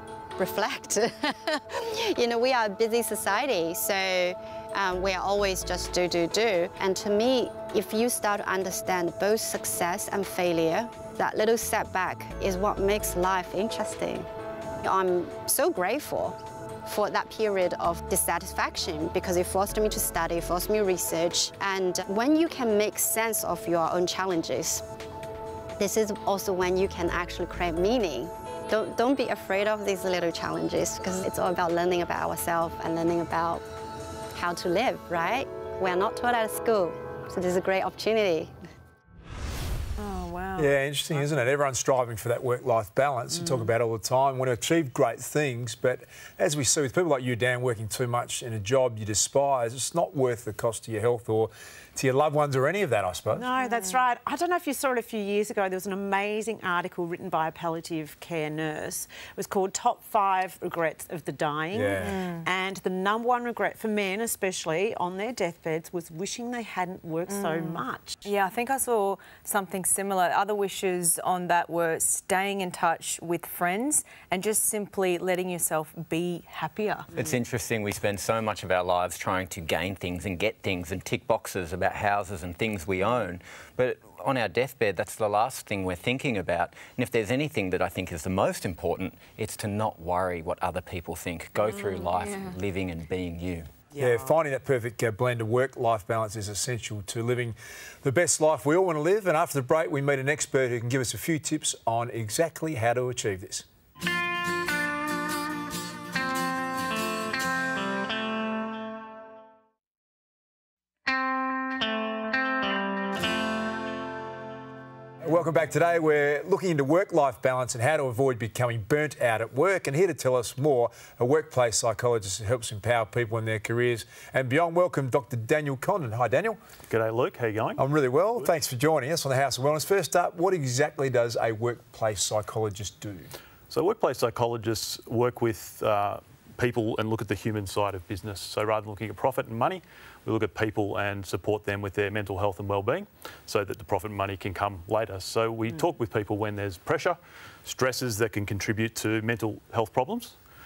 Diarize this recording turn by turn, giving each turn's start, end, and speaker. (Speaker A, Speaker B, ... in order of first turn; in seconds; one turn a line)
Speaker A: 0.4-14.3
Speaker A: 14.8-24.8
Speaker A: 25.8-33.6
Speaker A: 34.3-38.5
Speaker B: 40.0-40.7
Speaker C: 40.6-53.5
Speaker D: 53.3-68.2
Speaker B: 53.6-54.0
Speaker C: 61.7-62.2
Speaker B: 62.0-62.5
Speaker B: 67.3-77.1
Speaker E: 77.1-93.7
Speaker B: 92.0-92.3
Speaker C: 94.0-103.7
Speaker C: 115.2-126.6
Speaker F: 126.9-127.8
Speaker C: 127.8-133.3
Speaker F: 133.7-150.4